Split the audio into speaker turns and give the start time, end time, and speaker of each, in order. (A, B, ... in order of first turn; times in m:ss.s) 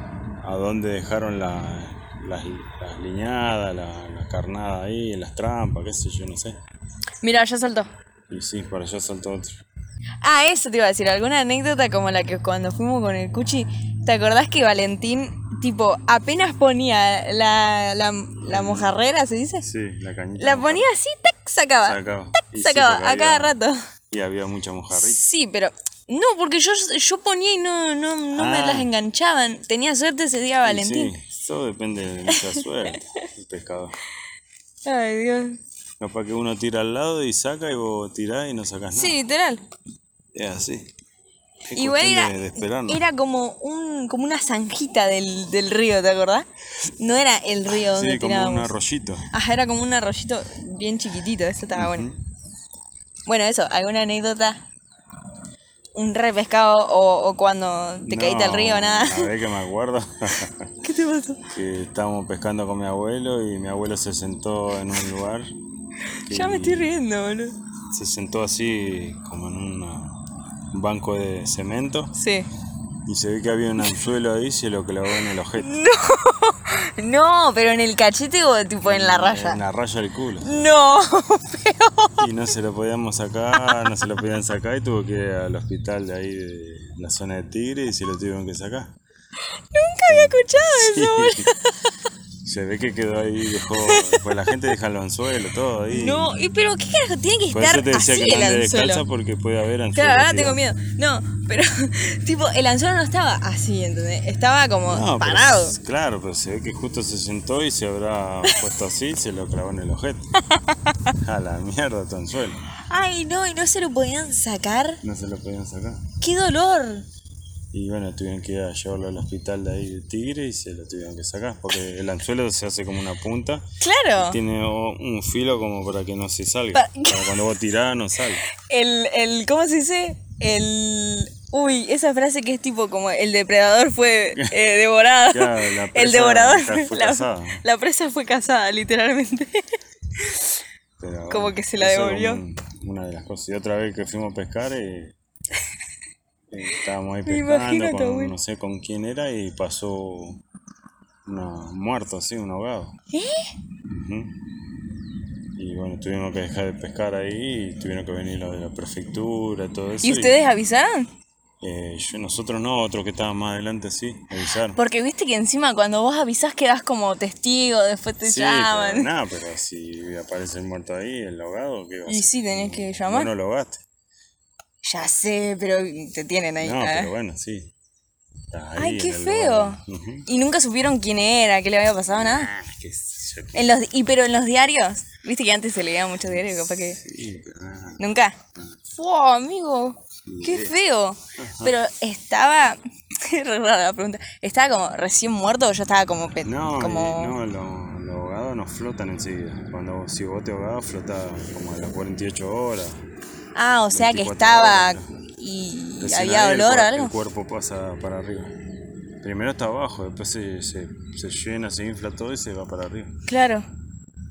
0:00.4-0:06.6 A
0:07.2-0:07.9 B
0:08.3-0:09.6 A
0:10.2-0:19.6 B
0:18.5-0:19.0 A
0:19.6-0:20.9 A
0:20.4-0:23.8 B
0:21.8-0:23.6 A
0:24.1-0:25.2 A
0:24.9-0:31.1 B
0:28.3-0:28.9 A
0:30.6-0:34.0 A
0:32.3-0:33.0 B
0:34.8-0:35.6 B
0:36.0-0:39.2 A
0:38.9-0:39.6 B
0:40.3-0:40.9 A
0:41.7-0:43.0 A
0:41.8-0:46.5 B
0:47.0-0:48.7 B
0:47.7-0:49.3 A
0:49.3-0:52.1 B
0:51.7-0:52.2 A
0:53.3-0:54.6 B
0:56.0-0:59.3 B
0:58.1-1:00.7 A
1:00.8-1:01.5 B
1:01.5-1:05.5 A
1:06.3-1:06.9 A
1:06.3-1:07.6 B
1:07.9-1:12.1 A
1:12.2-1:12.5 B
1:13.1-1:15.8 A
1:15.2-1:19.6 B
1:18.8-1:20.7 A
1:20.4-1:22.2 B
1:22.2-1:29.0 A
1:23.6-1:23.9 B
1:29.7-1:31.8 B
1:30.1-1:31.5 A
1:32.4-1:36.4 A
1:33.7-1:34.7 B
1:35.9-1:39.0 B
1:37.5-1:40.6 A
1:40.0-1:45.7 B
1:44.9-1:50.3 A
1:50.5-1:51.0 B
1:51.2-1:52.6 A
1:52.9-1:55.0 B
1:55.0-1:56.0 A
1:56.2-1:57.1 B
1:57.7-2:03.6 A
2:03.8-2:04.4 B
2:04.2-2:08.4 A
2:06.7-2:07.3 B
2:08.5-2:19.6 B
2:15.3-2:17.6 A
2:20.2-2:20.6 B
2:21.0-2:25.2 A
2:21.3-2:22.4 B
2:26.5-2:30.4 A
2:27.3-2:28.3 B
2:31.3-2:33.0 A
2:33.1-2:33.5 B
2:33.9-2:34.3 A
2:35.6-2:40.4 A
2:40.0-2:41.1 B
2:41.6-2:44.8 A
2:44.7-2:49.1 B
2:48.2-2:53.8 A
2:52.1-2:53.3 B
2:54.8-2:57.1 B
2:56.6-2:57.7 A
2:58.5-3:00.3 A
2:58.8-3:02.5 B
3:02.1-3:03.8 A
3:03.5-3:07.0 B
3:06.2-3:08.0 A
3:08.0-3:08.4 B
3:09.0-3:17.4 B
3:10.2-3:10.8 A
3:11.4-3:11.8 A
3:16.4-3:23.0 A
3:23.6-3:27.1 B
3:23.9-3:25.1 A
3:26.0-3:28.6 A
3:29.2-3:33.1 A
3:33.3-3:33.7 B